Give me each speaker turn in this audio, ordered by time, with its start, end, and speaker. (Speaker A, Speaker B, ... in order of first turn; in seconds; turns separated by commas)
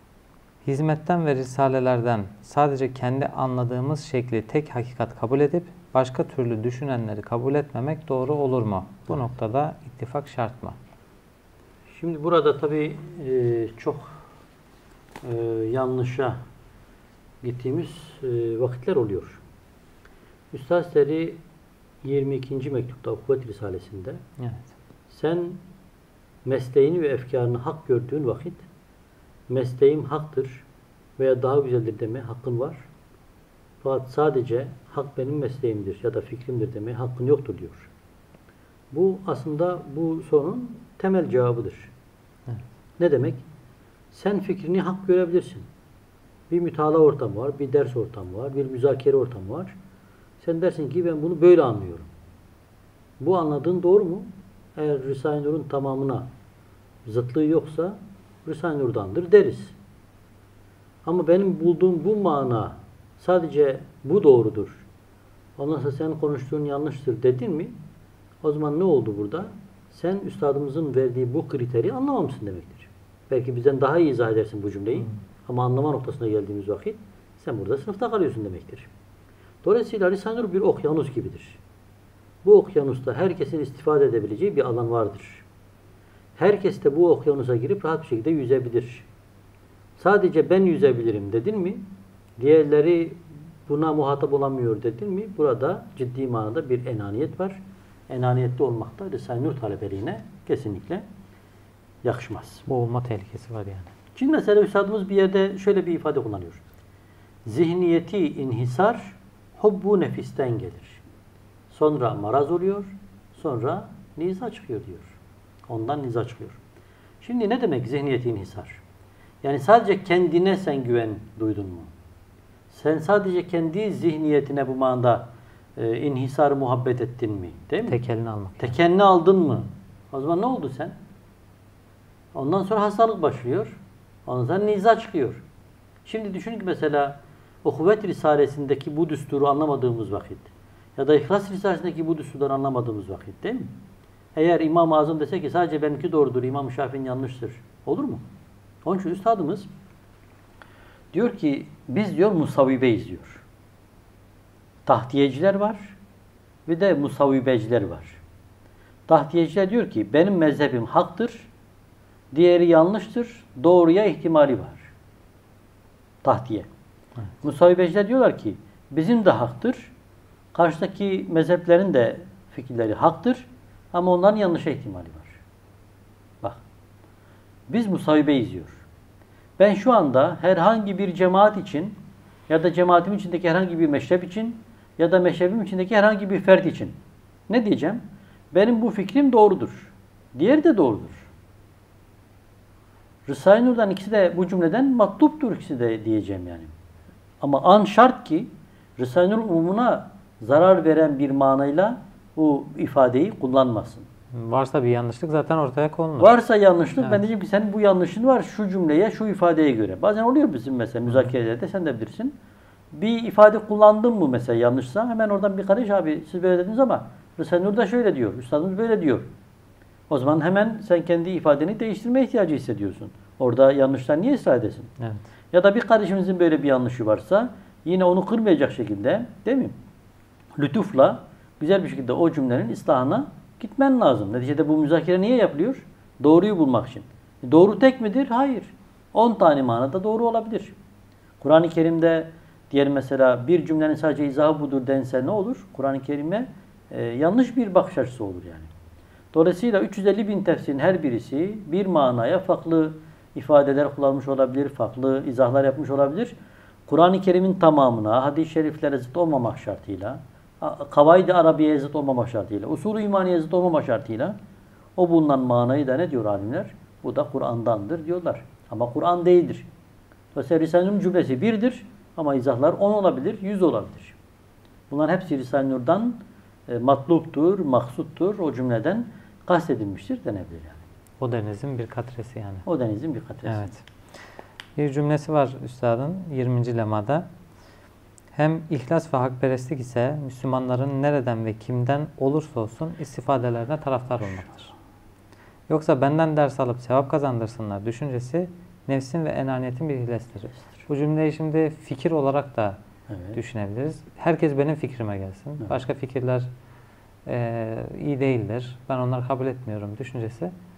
Speaker A: 0.6-10.8, Speaker B: 11.9-14.2, Speaker B: 15.2-16.4, Speaker B: 17.4-19.4, Speaker B: 20.5-21.4, Speaker B: 22.0-24.2, Speaker A: 24.4-24.6, Speaker B: 25.1-25.6, Speaker B: 26.4-28.6, Speaker B: 29.5-30.6, Speaker B: 31.2-32.9, Speaker B: 33.8-37.9, Speaker B: 38.9-41.9, Speaker B: 43.0-43.4, Speaker B: 44.1-45.7, Speaker B: 46.5-49.7, Speaker B: 50.4-52.1, Speaker B: 53.2-56.3, Speaker B: 57.0-59.8, Speaker B: 61.0-64.8, Speaker B: 65.6-67.8, Speaker B: 68.4-78.9, Speaker B: 79.6-81.6, Speaker B: 82.4-85.5, Speaker B: 86.4-89.1, Speaker B: 90.0-101.0, Speaker B: 102.0-102.6, Speaker A: 102.7-103.9, Speaker B: 104.1-106.6, Speaker B: 107.5-111.0, Speaker B: 111.7-115.2, Speaker B: 115.7-116.6, Speaker B: 117.2-118.8, Speaker B: 119.4-121.9, Speaker B: 122.7-128.0, Speaker A: 127.8-128.7, Speaker B: 128.6-130.9, Speaker B: 132.3-135.4, Speaker B: 136.0-143.7, Speaker B: 144.3-148.2, Speaker B: 148.8-149.7, Speaker B: 151.1-153.4, Speaker B: 154.8-156.0, Speaker B: 156.7-158.2, Speaker B: 159.1-161.5, Speaker B: 162.3-164.9, Speaker B: 166.2-166.7, Speaker B: 167.4-169.9, Speaker B: 170.5-175.4, Speaker B: 177.7-178.8, Speaker B: 179.6-186.9, Speaker B: 187.5-191.3, Speaker B: 193.2-196.7, Speaker B: 197.4-204.1, Speaker A: 204.3-206.3, Speaker B: 206.2-212.3, Speaker B: 212.9-219.3, Speaker B: 220.1-224.9, Speaker B: 225.5-229.7, Speaker B: 230.6-240.7, Speaker B: 241.4-248.7, Speaker B: 249.3-256.4, Speaker B: 256.9-264.4, Speaker B: 264.9-269.7, Speaker B: 270.3-274.2, Speaker B: 274.9-280.8, Speaker A: 281.2-282.6, Speaker B: 282.6-283.7, Speaker A: 283.4-283.8, Speaker A: 284.8-287.3, Speaker A: 288.3-294.7, Speaker A: 295.7-302.8, Speaker B: 303.1-303.4, Speaker A: 303.3-306.5, Speaker A: 307.2-310.5